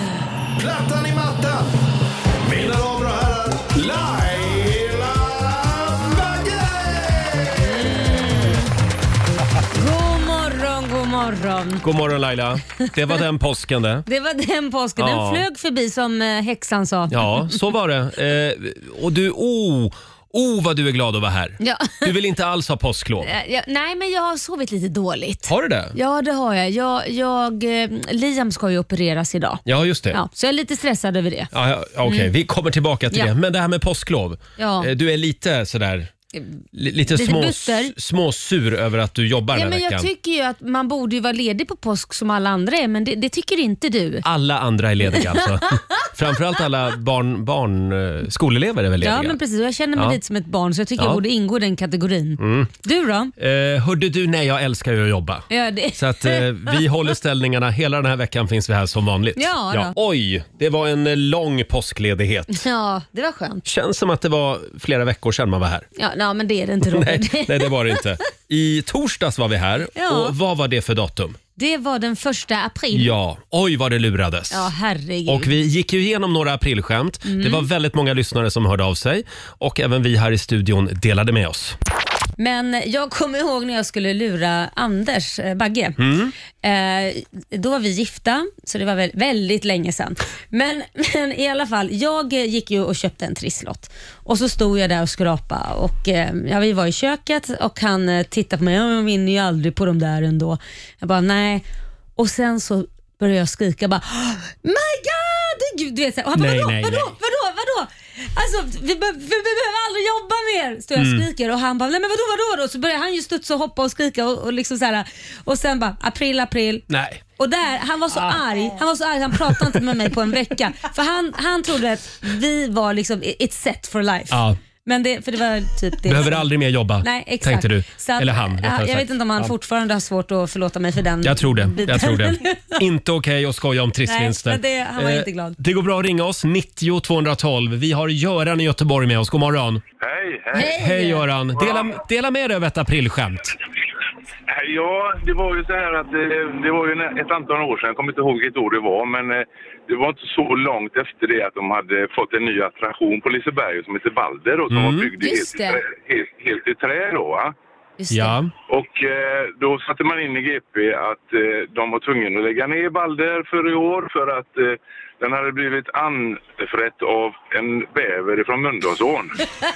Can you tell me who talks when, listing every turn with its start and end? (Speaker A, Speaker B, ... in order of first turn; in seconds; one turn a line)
Speaker A: 0.6-1.8
Speaker A: 2.4-8.1
Speaker B: 7.6-8.7
Speaker B: 9.7-11.8
Speaker C: 11.8-14.0
Speaker B: 14.1-17.6
Speaker C: 15.0-15.4
Speaker C: 17.1-23.3
Speaker B: 21.6-22.1
Speaker B: 23.2-31.5
Speaker C: 25.4-25.9
Speaker C: 29.6-30.2
Speaker C: 31.5-36.1
Speaker B: 32.0-32.3
Speaker B: 34.6-34.9
Speaker C: 36.7-40.1
Speaker B: 37.1-37.9
Speaker B: 39.5-44.3
Speaker C: 44.2-49.4
Speaker B: 45.3-46.0
Speaker B: 49.0-53.3
Speaker C: 52.4-52.7
Speaker C: 53.4-62.6
Speaker B: 55.5-56.8
Speaker B: 59.3-59.9
Speaker B: 62.5-63.6
Speaker C: 63.6-65.8
Speaker B: 66.0-68.0
Speaker C: 66.8-71.4
Speaker B: 70.0-70.3
Speaker B: 71.6-73.1
Speaker C: 72.9-74.7
Speaker B: 74.5-75.5
Speaker C: 75.2-81.8
Speaker B: 77.2-77.7
Speaker B: 82.4-86.0
Speaker C: 86.0-86.3
Speaker B: 86.6-101.6
Speaker B: 102.2-116.8
Speaker C: 106.3-107.1
Speaker C: 111.0-111.2
Speaker C: 116.9-117.2
Speaker B: 117.4-126.5
Speaker C: 118.1-118.4
Speaker C: 119.5-119.8
Speaker C: 124.3-124.6
Speaker C: 126.0-129.5
Speaker B: 127.0-132.8
Speaker C: 131.2-139.8
Speaker B: 134.1-135.6
Speaker D: 140.0-140.7
Speaker B: 140.5-141.2
Speaker C: 140.6-143.6
Speaker D: 141.6-141.9
Speaker D: 144.5-157.5
Speaker C: 154.7-155.1
Speaker B: 155.2-155.8
Speaker B: 158.0-158.4
Speaker C: 158.1-158.5
Speaker D: 158.7-169.4